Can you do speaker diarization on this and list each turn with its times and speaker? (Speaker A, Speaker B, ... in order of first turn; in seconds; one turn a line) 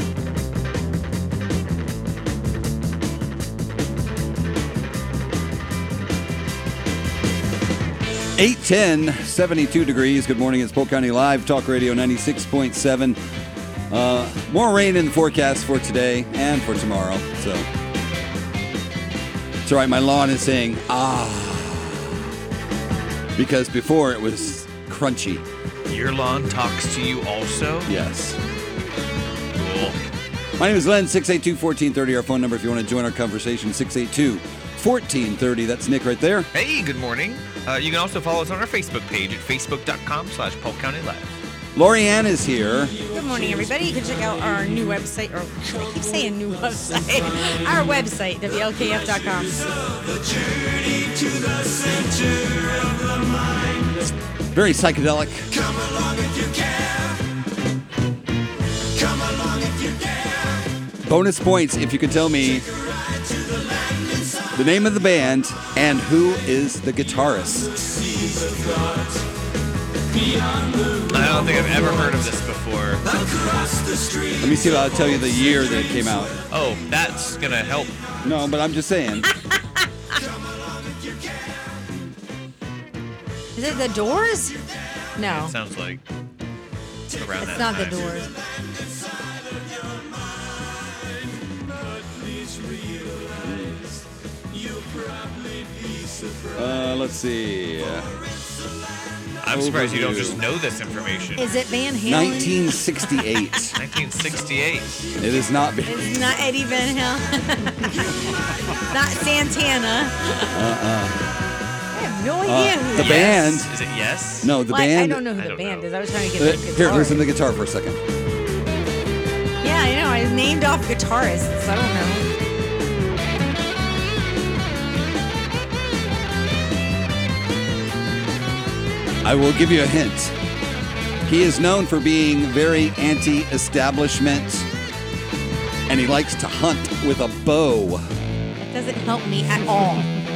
Speaker A: 8.3-13.2
Speaker A: 13.9-17.7
Speaker A: 19.6-22.2
Speaker A: 23.4-25.4
Speaker B: 25.9-27.9
Speaker A: 27.9-28.4
Speaker B: 29.5-30.0
Speaker A: 30.6-36.5
Speaker B: 36.5-41.4
Speaker A: 41.7-43.0
Speaker C: 43.1-49.9
Speaker A: 54.5-55.6
Speaker A: 61.0-62.7
Speaker A: 64.5-67.7
Speaker B: 71.0-73.0
Speaker A: 74.4-76.4
Speaker B: 76.5-78.0
Speaker A: 78.2-79.3
Speaker C: 83.5-84.6
Speaker C: 85.2-85.5
Speaker B: 85.2-86.0
Speaker B: 87.1-88.2
Speaker C: 87.4-88.3
Speaker A: 93.4-93.9
Speaker A: 96.5-98.1
Speaker B: 99.4-101.5
Speaker A: 99.5-100.4
Speaker C: 101.4-103.7
Speaker A: 102.0-103.8
Speaker B: 103.8-105.0
Speaker A: 105.2-106.2
Speaker C: 105.8-110.6
Speaker A: 110.5-111.2
Speaker C: 111.9-113.6
Speaker A: 112.4-113.7
Speaker B: 113.0-114.5
Speaker A: 114.4-115.3
Speaker C: 114.7-117.3
Speaker B: 115.3-115.9
Speaker A: 116.3-118.0
Speaker C: 119.6-122.3
Speaker A: 129.2-130.3
Speaker A: 131.2-134.7
Speaker A: 135.9-138.1
Speaker C: 138.6-140.1